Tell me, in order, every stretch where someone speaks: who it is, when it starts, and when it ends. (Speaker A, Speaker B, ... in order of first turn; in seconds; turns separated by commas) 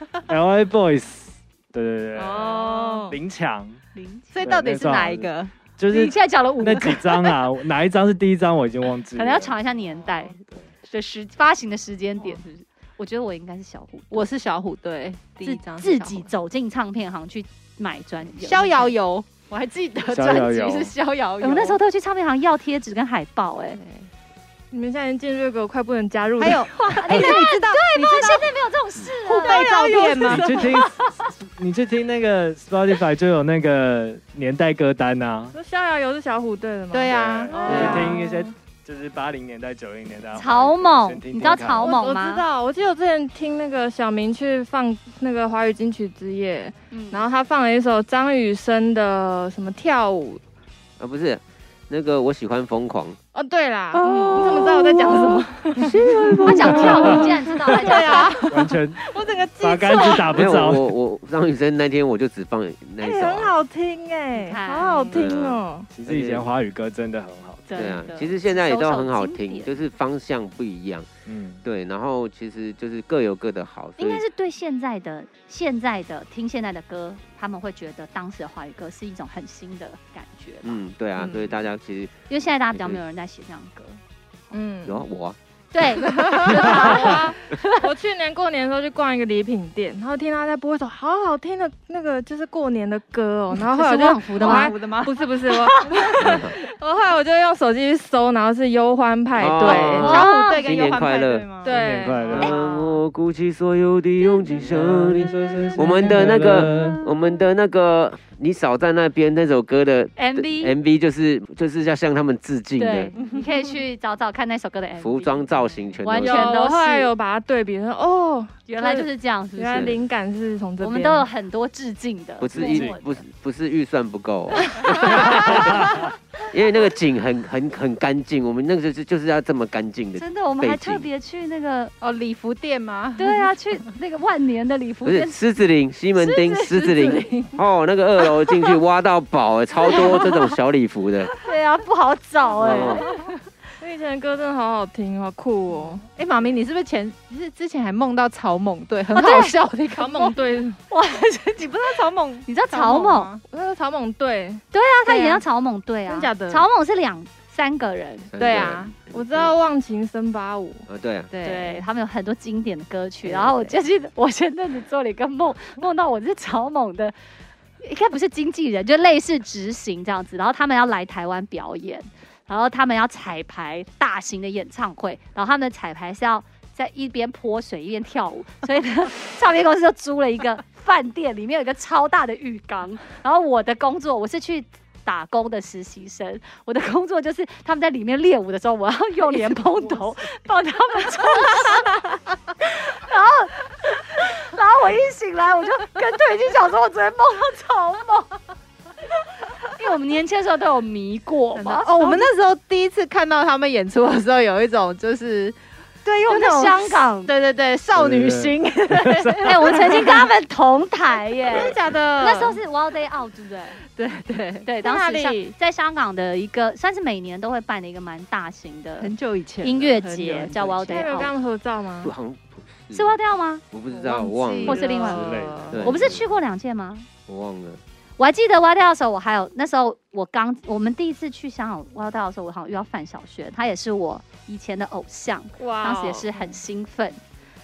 Speaker A: 0.3-3.8, Speaker B: 2.1-3.2, Speaker C: 4.0-4.4, Speaker D: 4.3-5.5, Speaker A: 4.4-9.7, Speaker C: 5.9-7.3, Speaker C: 9.2-14.3, Speaker A: 10.3-10.7, Speaker D: 14.1-16.3, Speaker C: 15.4-18.9, Speaker D: 18.4-21.8, Speaker A: 20.1-20.9, Speaker C: 21.4-23.8, Speaker D: 23.7-24.1, Speaker B: 24.7-27.4, Speaker D: 26.4-28.5, Speaker C: 26.9-31.2, Speaker D: 29.2-30.5, Speaker B: 29.5-30.9, Speaker A: 30.2-31.1, Speaker A: 31.6-35.6, Speaker B: 35.5-38.5, Speaker D: 36.9-38.2, Speaker A: 37.1-41.9, Speaker C: 40.4-42.5, Speaker B: 41.5-50.4, Speaker C: 46.9-47.3, Speaker E: 51.0-53.2, Speaker B: 53.3-60.4, Speaker D: 54.0-55.5, Speaker C: 54.0-55.3, Speaker E: 55.8-57.2, Speaker C: 56.4-58.5, Speaker A: 56.7-57.7, Speaker D: 57.7-58.5, Speaker A: 58.5-59.0, Speaker A: 59.5-60.9, Speaker E: 60.3-63.6, Speaker B: 63.0-65.9, Speaker C: 64.3-65.3, Speaker E: 65.1-66.5, Speaker A: 65.9-67.7, Speaker C: 67.7-69.8, Speaker E: 67.8-71.1, Speaker A: 71.3-71.6, Speaker E: 71.6-74.2, Speaker C: 74.0-80.8, Speaker E: 80.6-83.0, Speaker B: 81.2-81.5, Speaker C: 82.3-84.0, Speaker B: 84.5-85.0, Speaker E: 84.8-85.4, Speaker C: 85.7-87.8, Speaker D: 86.1-87.1, Speaker B: 86.4-100.6, Speaker C: 93.7-94.8, Speaker D: 94.4-95.3, Speaker C: 95.5-96.1, Speaker E: 96.2-96.5, Speaker E: 99.4-101.5, Speaker D: 99.7-101.8, Speaker C: 100.1-100.3, Speaker B: 101.6-102.5, Speaker A: 101.7-102.5, Speaker E: 102.2-113.1, Speaker D: 102.4-103.0, Speaker A: 104.7-107.0, Speaker C: 110.2-110.8, Speaker C: 112.8-115.5, Speaker E: 115.0-116.6, Speaker C: 116.0-117.1, Speaker B: 116.2-121.3, Speaker C: 118.7-119.9, Speaker E: 119.7-120.0, Speaker C: 120.8-123.2, Speaker E: 122.4-131.1, Speaker A: 122.6-123.0, Speaker C: 125.0-125.8, Speaker A: 125.3-126.0, Speaker C: 130.2-131.9, Speaker D: 132.0-133.5, Speaker C: 133.2-135.4, Speaker E: 135.1-141.3, Speaker C: 136.2-137.2, Speaker C: 139.9-140.2, Speaker C: 141.4-143.4, Speaker E: 142.6-143.0, Speaker B: 143.8-146.0, Speaker D: 146.1-150.4, Speaker C: 149.1-149.6, Speaker B: 149.9-150.8, Speaker C: 150.9-151.7, Speaker D: 151.6-153.4, Speaker C: 152.5-153.3, Speaker B: 153.5-154.6, Speaker C: 154.7-158.3, Speaker D: 155.1-155.4, Speaker B: 156.1-156.7, Speaker E: 158.3-159.6, Speaker B: 158.4-160.9, Speaker E: 160.9-161.3, Speaker D: 161.3-161.9, Speaker C: 161.4-167.2, Speaker D: 163.2-163.8, Speaker C: 167.8-198.4, Speaker C: 199.4-202.3, Speaker D: 201.5-210.3, Speaker C: 206.2-207.3, Speaker A: 208.0-209.8, Speaker C: 209.4-213.8, Speaker D: 211.4-212.6, Speaker D: 213.9-214.7, Speaker C: 214.7-221.3, Speaker B: 214.8-215.6, Speaker D: 219.0-221.1, Speaker B: 220.9-222.1, Speaker E: 222.0-223.2, Speaker C: 222.9-223.6, Speaker E: 223.7-224.8, Speaker D: 223.9-225.9, Speaker C: 224.7-227.1, Speaker B: 224.9-225.2, Speaker A: 225.1-225.9, Speaker E: 225.7-226.3, Speaker E: 227.3-227.8, Speaker C: 228.2-237.2, Speaker B: 235.6-236.3